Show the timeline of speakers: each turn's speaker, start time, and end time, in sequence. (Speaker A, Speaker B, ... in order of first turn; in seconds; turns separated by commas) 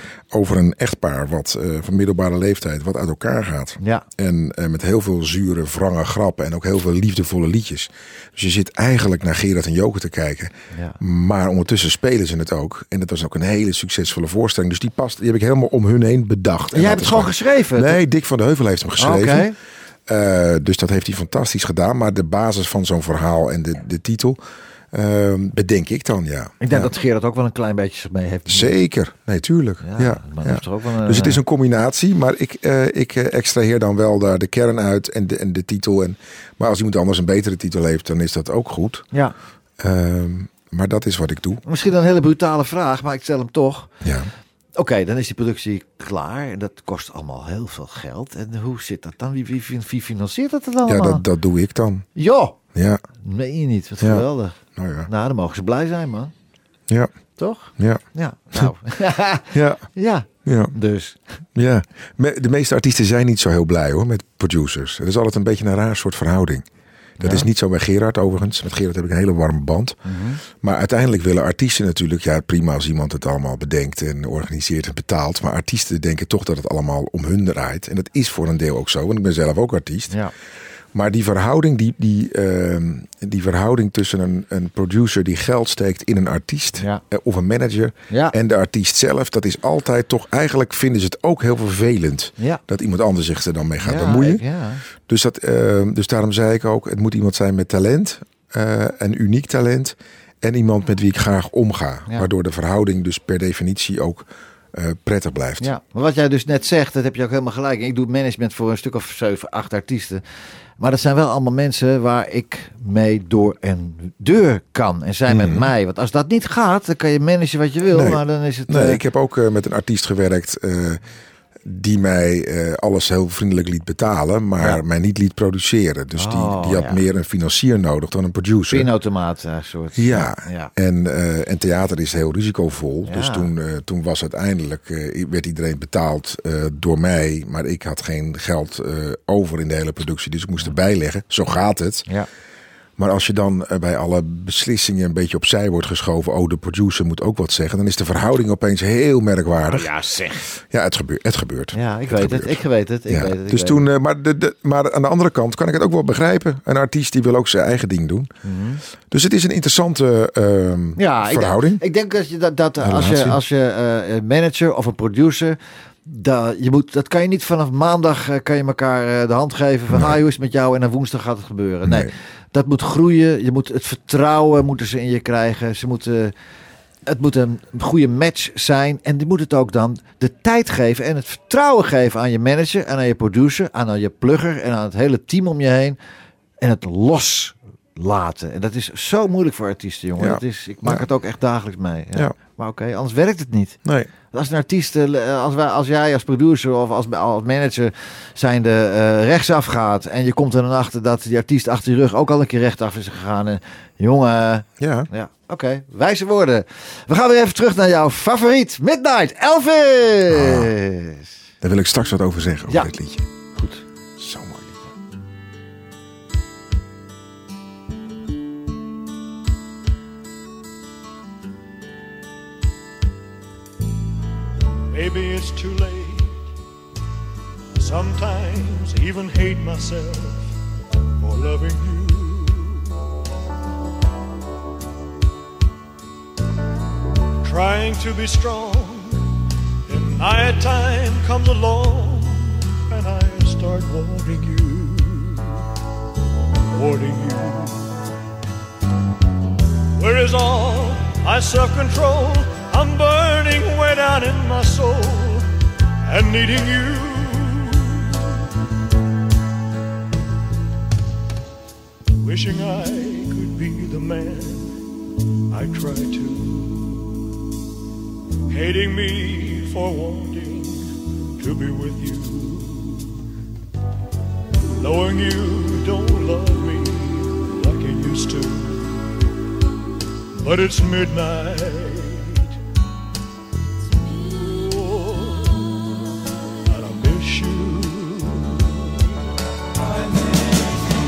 Speaker A: 0.3-19.5, Speaker B: 3.8-4.0, Speaker B: 10.7-11.0, Speaker B: 16.7-18.0, Speaker B: 19.0-19.6, Speaker A: 20.1-24.4, Speaker A: 24.9-26.9, Speaker B: 26.6-28.8, Speaker A: 28.5-39.1, Speaker B: 29.8-31.4, Speaker A: 39.8-41.6, Speaker B: 41.7-43.9, Speaker A: 44.0-44.3, Speaker B: 44.8-51.2, Speaker A: 50.9-52.1, Speaker B: 52.2-52.6, Speaker A: 52.7-53.0, Speaker B: 53.2-54.6, Speaker A: 54.8-55.1, Speaker B: 55.1-56.3, Speaker B: 57.4-61.2, Speaker A: 59.5-59.8, Speaker A: 60.5-60.8, Speaker A: 61.5-66.7, Speaker B: 67.2-67.5, Speaker A: 67.2-80.2, Speaker B: 70.0-70.4, Speaker A: 80.9-94.4, Speaker B: 93.8-94.8, Speaker A: 95.0-105.7, Speaker B: 105.6-110.2, Speaker B: 110.8-119.0, Speaker A: 115.3-115.7, Speaker A: 117.9-121.0, Speaker A: 121.7-128.9, Speaker B: 126.2-127.0, Speaker B: 128.7-130.7, Speaker A: 129.9-142.1, Speaker B: 133.1-133.5, Speaker A: 143.0-149.9, Speaker B: 149.8-150.4, Speaker A: 150.6-158.3, Speaker B: 151.7-153.8, Speaker B: 158.4-158.8, Speaker A: 159.1-161.8, Speaker B: 161.0-176.3, Speaker A: 162.8-163.4, Speaker A: 169.9-170.2, Speaker A: 171.8-172.1, Speaker B: 177.1-186.0, Speaker B: 186.6-193.8, Speaker A: 190.2-191.1, Speaker A: 193.8-194.1, Speaker B: 194.3-211.3, Speaker A: 204.8-205.1, Speaker A: 210.3-210.7, Speaker A: 211.6-213.2, Speaker B: 213.6-213.8, Speaker A: 214.2-214.8, Speaker C: 224.9-226.4, Speaker C: 227.8-230.5, Speaker C: 231.2-232.9, Speaker C: 237.4-239.3, Speaker C: 239.9-245.6, Speaker C: 246.7-247.9, Speaker C: 250.0-255.5, Speaker C: 256.1-258.4, Speaker C: 262.2-264.7, Speaker C: 265.5-267.1, Speaker C: 268.5-273.2, Speaker C: 274.7-278.9, Speaker C: 280.4-282.5, Speaker C: 284.2-285.9, Speaker C: 286.7-288.9